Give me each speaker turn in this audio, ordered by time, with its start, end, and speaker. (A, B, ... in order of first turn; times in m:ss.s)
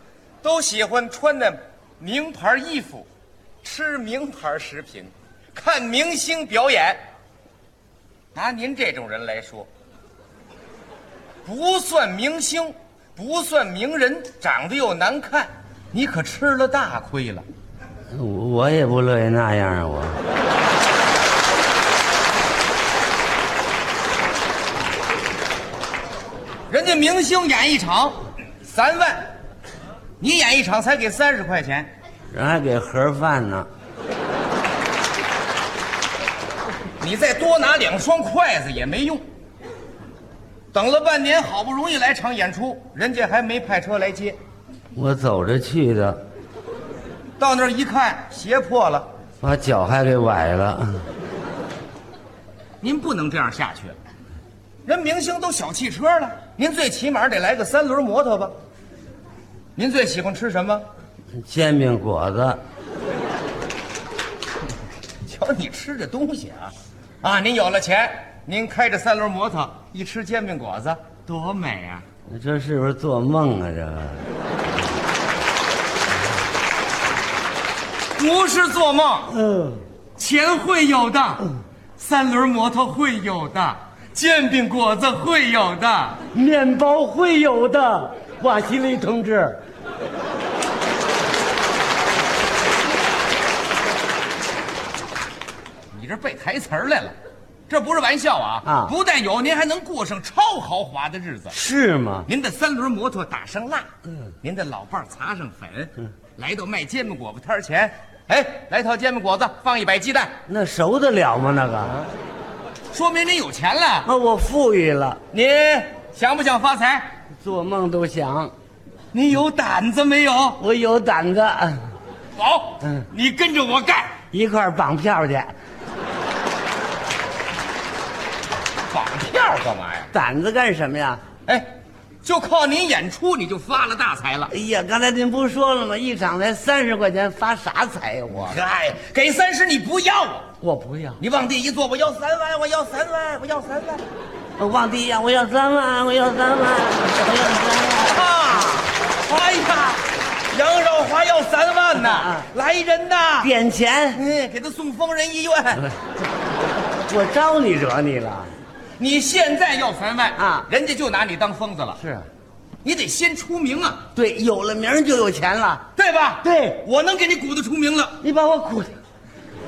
0:00.4-0:03.1 A
0:03.6-0:07.0 A
0:08.3-0:09.7 A
0:11.4-0:17.4 A
0:18.1-0:20.2 B
0:26.7-0:29.3 A
0:30.2-0:31.9 A
0:32.3-0:33.7 B
0:37.0-0:39.2 A
0:40.7-0:44.4 A
0:45.0-0:46.2 B
0:47.4-0:49.1 A
0:49.4-0:51.1 B
0:52.8-0:54.0 A
0:54.9-0:58.5 A
0:59.8-1:00.9 A
1:01.4-1:02.6 B
1:05.2-1:12.0 A
1:12.3-1:14.3 B
1:18.2-1:19.4 A
1:19.3-1:19.8 B
1:20.2-1:26.2 A
1:26.3-1:29.6 B
1:35.9-1:37.2 A
1:37.7-1:41.6 A
1:38.6-1:38.9 B
1:41.5-1:42.3 B
1:42.3-1:43.9 A
1:44.4-1:50.3 A
1:50.5-1:52.1 B
1:52.9-1:54.1 A
1:54.0-1:55.2 B
1:55.3-1:57.1 A
1:57.4-1:58.5 B
1:59.1-2:00.6 A
2:00.6-2:01.9 B
2:02.4-2:04.2 A
2:04.3-2:05.6 B
2:08.9-2:10.1 A
2:10.1-2:11.2 B
2:12.2-2:14.5 A
2:14.5-2:18.6 B
2:18.3-2:20.5 A
2:20.6-2:21.2 B
2:21.2-2:24.0 A
2:24.6-2:28.2 B
2:28.0-2:33.5 A
2:32.0-2:32.5 B
2:33.4-2:34.2 B
2:34.1-2:35.9 A
2:37.1-2:38.5 B
2:39.0-2:42.0 A
2:40.4-2:40.7 B
2:42.0-2:42.3 B
2:42.8-2:44.0 A
2:44.2-2:45.9 B
2:46.0-2:48.2 A
2:46.4-2:46.8 B
2:48.2-2:49.0 B